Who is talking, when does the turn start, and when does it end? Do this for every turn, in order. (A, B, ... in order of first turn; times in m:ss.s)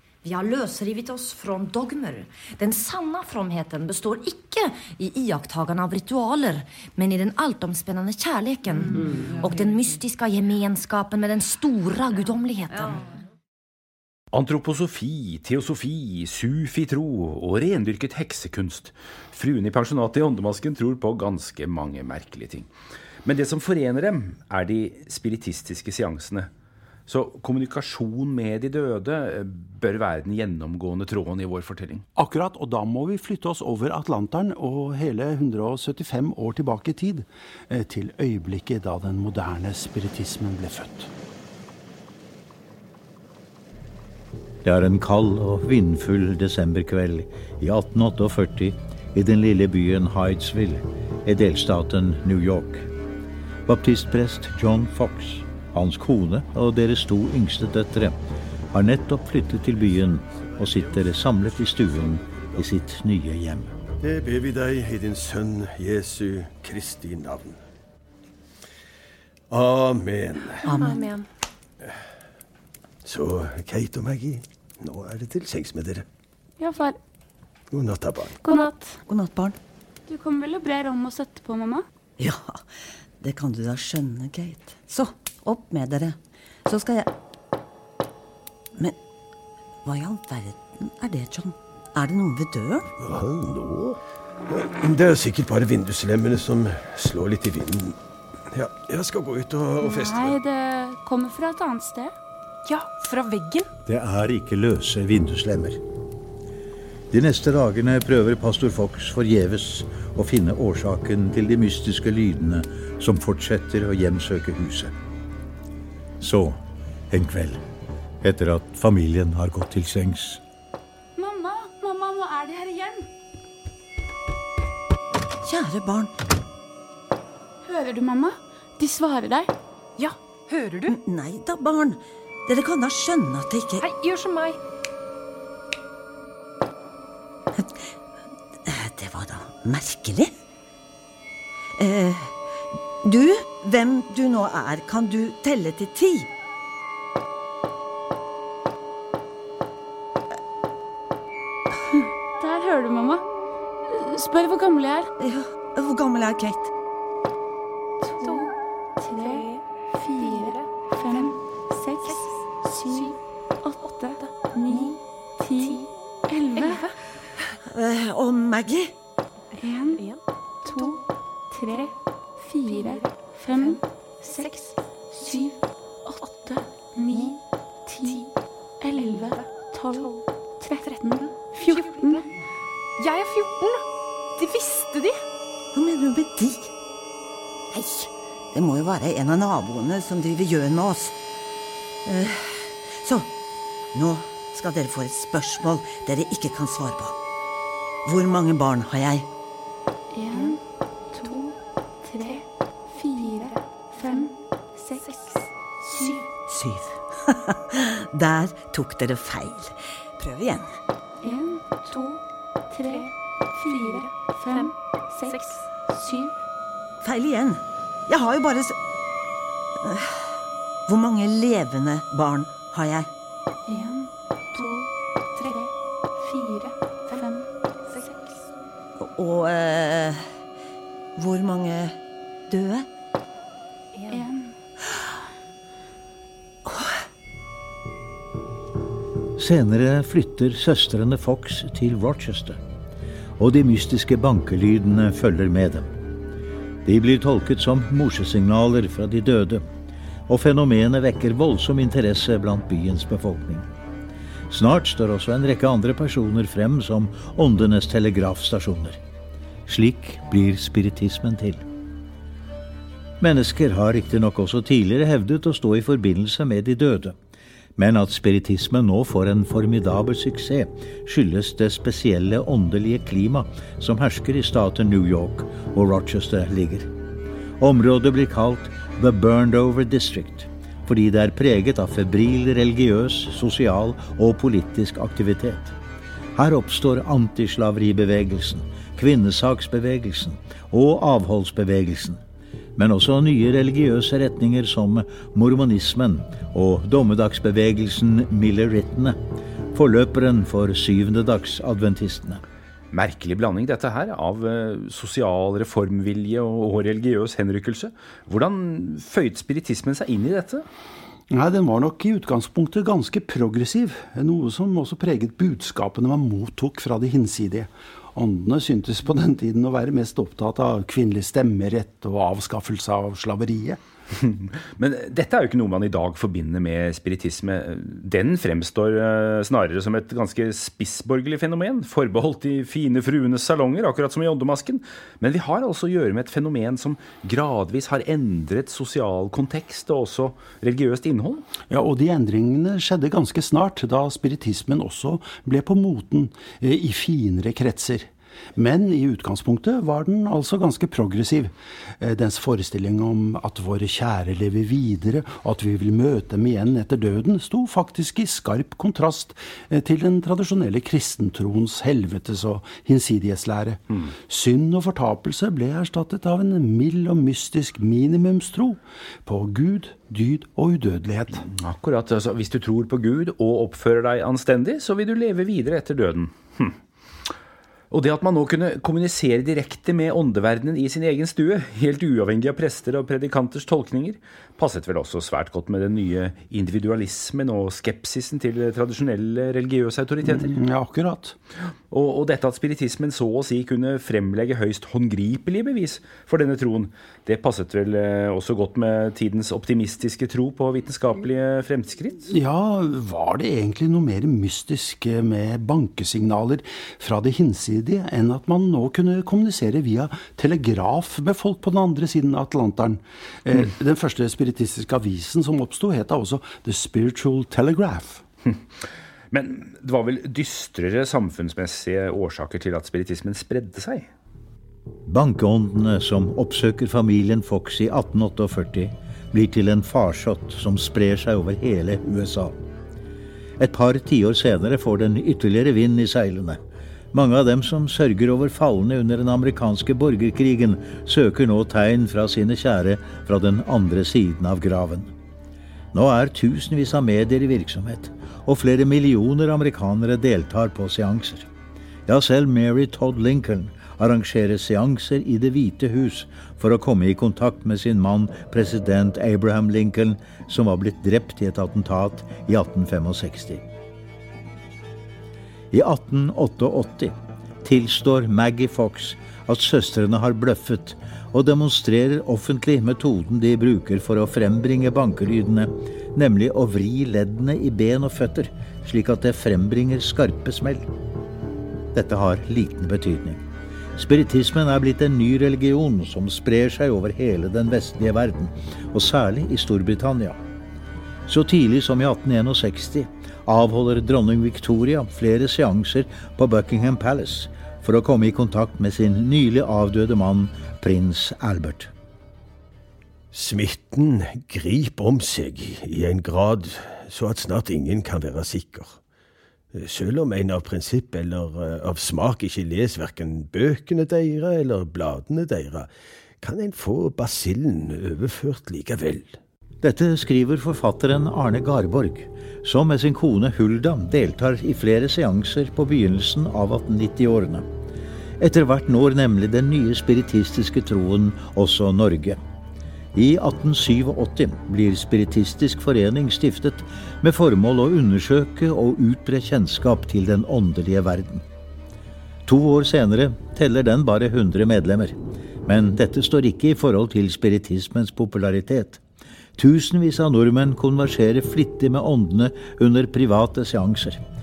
0:00.2-0:13.0 A
0:14.3-0:22.7 B
0:23.2-0:26.5 B
0:27.1-0:32.1 B
0:32.2-0:41.1 C
0:44.6-0:52.9 D
0:53.6-0:58.2 D
0:58.7-1:03.7 D
1:04.0-1:07.6 E
1:09.5-1:10.8 E
1:10.6-1:11.0 F
1:10.7-1:11.2 G
1:13.0-1:16.0 E
1:16.6-1:17.0 H
1:17.7-1:18.4 E
1:18.4-1:19.0 H
1:19.0-1:19.6 F
1:20.1-1:21.8 H
1:22.2-1:22.6 F
1:23.2-1:27.1 F
1:29.8-1:32.8 F
1:33.0-1:38.0 E
1:38.5-1:40.4 E
1:39.8-1:42.1 H
1:42.6-1:43.7 G
1:43.8-1:45.8 D
1:47.1-1:54.9 D
1:56.2-1:57.6 D
1:58.2-2:00.4 D
2:01.2-2:03.1 H
2:05.4-2:06.1 F
2:07.6-2:09.5 H
2:10.0-2:11.0 G
2:10.8-2:13.8 F
2:13.8-2:14.6 G
2:17.5-2:17.9 F
2:18.6-2:20.3 F
2:21.8-2:22.4 F
2:23.0-2:26.3 F
2:32.4-2:33.2 H
2:33.9-2:35.1 H
2:35.2-2:36.7 F
2:38.0-2:46.8 H
2:39.1-2:39.6 G
2:40.2-2:41.3 G
2:42.0-2:43.1 G
2:46.5-2:46.9 G
2:47.6-2:48.9 F
2:49.6-2:50.0 H
2:49.9-2:50.2 G
2:50.6-2:58.3 H
2:54.4-2:54.7 G
2:58.8-3:02.2 H
3:01.5-3:02.2 G
3:03.0-3:03.8 G
3:04.4-3:05.2 G
3:05.7-3:06.7 F
3:07.7-3:11.2 F
3:12.0-3:13.3 F
3:13.9-3:17.2 F
3:18.0-3:19.3 F
3:20.1-3:20.6 H
3:21.1-3:25.3 H
3:26.4-3:30.7 F
3:31.2-3:36.3 H
3:35.3-3:35.6 G
3:37.0-3:38.8 F
3:39.8-3:43.1 F
3:43.7-3:47.4 H
3:47.9-3:48.2 G
3:49.0-3:50.3 F
3:51.2-3:52.9 F
3:54.1-3:54.5 H
3:56.6-3:57.0 F
3:59.4-4:02.6 D
4:03.4-4:05.9 D
4:06.8-4:09.6 D
4:10.3-4:13.7 D
4:14.5-4:19.0 D
4:19.6-4:21.6 D
4:23.2-4:27.2 D
4:27.8-4:36.9 D
4:37.6-4:45.8 D
4:46.3-4:52.2 D
4:52.8-4:59.2 D
4:59.7-5:02.4 D
5:02.9-5:10.6 B
5:11.3-5:23.8 C
5:24.2-5:41.4 B
5:41.7-6:11.5 C
6:11.4-6:16.8 B
6:17.9-6:30.5 B
6:30.2-6:31.4 C
6:31.9-6:42.3 B
6:42.3-6:58.2 C
6:59.3-7:04.1 B
7:05.0-7:12.6 D
7:13.6-7:16.6 D
7:17.1-7:25.1 D
7:25.9-7:31.5 D
7:32.1-7:43.6 D
7:45.7-8:00.9 D
8:01.9-8:03.4 D
8:04.0-8:10.4 D
8:11.2-8:21.9 D
8:23.3-8:29.0 E
8:29.7-8:39.4 E
8:39.8-8:47.7 D
8:48.4-8:52.4 D
8:53.1-9:01.4 D
9:02.4-9:09.0 D
9:09.6-9:14.2 D